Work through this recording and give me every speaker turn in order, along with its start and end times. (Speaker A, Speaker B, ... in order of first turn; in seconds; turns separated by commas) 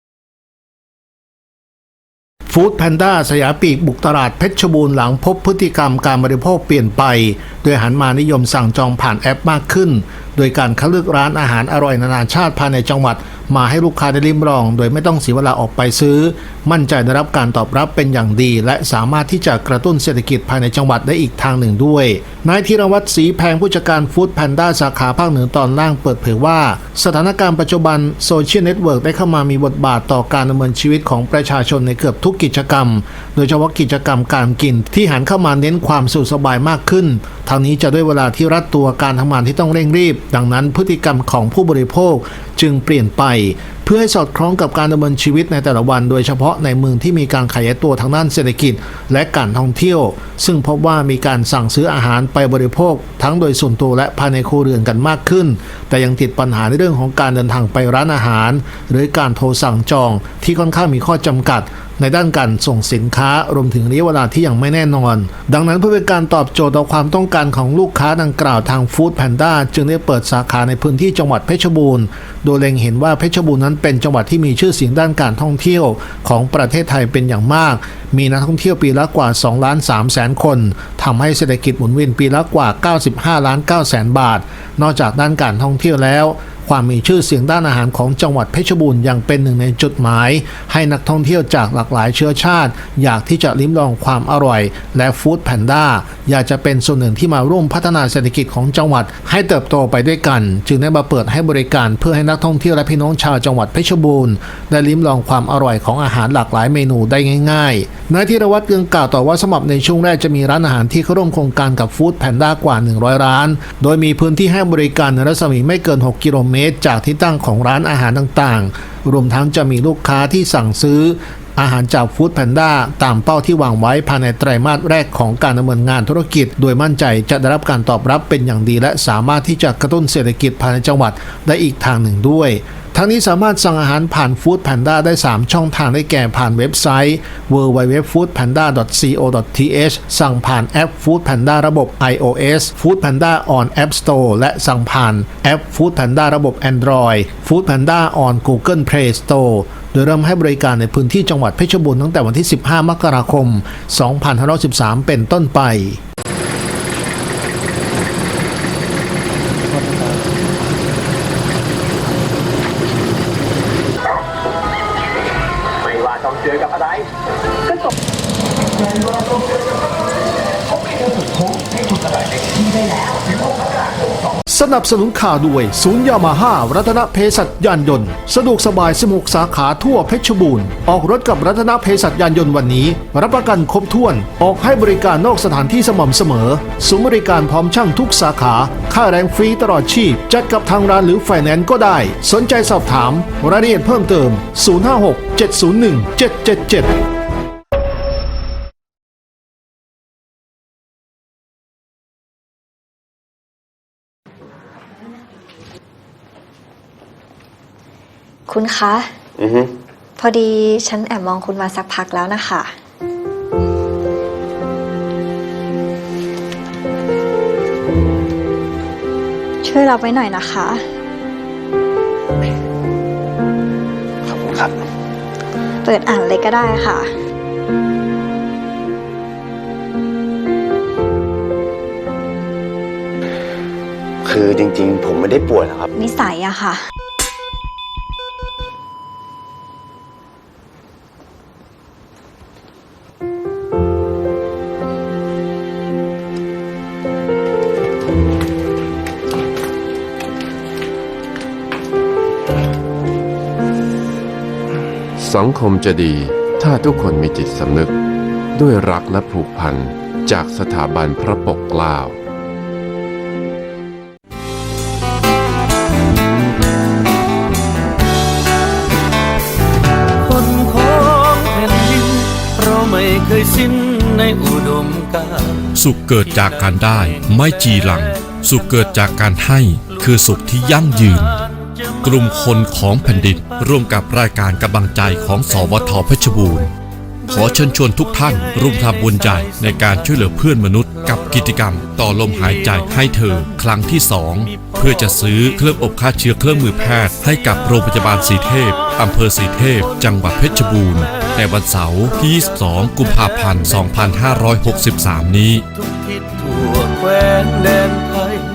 Speaker A: 2.5-156.0, Speaker A: 174.5-196.9, Speaker B: 208.5-209.1, Speaker C: 209.4-209.7, Speaker B: 210.2-212.7, Speaker B: 219.6-220.8, Speaker C: 224.4-224.7, Speaker B: 225.8-227.1, Speaker C: 234.2-235.9, Speaker B: 235.9-236.8, Speaker D: 255.2-257.9, Speaker D: 258.6-262.2, Speaker E: 270.3-275.4, Speaker F: 275.7-281.4, Speaker F: 282.0-286.7, Speaker F: 287.3-305.6, Speaker E: 306.2-308.4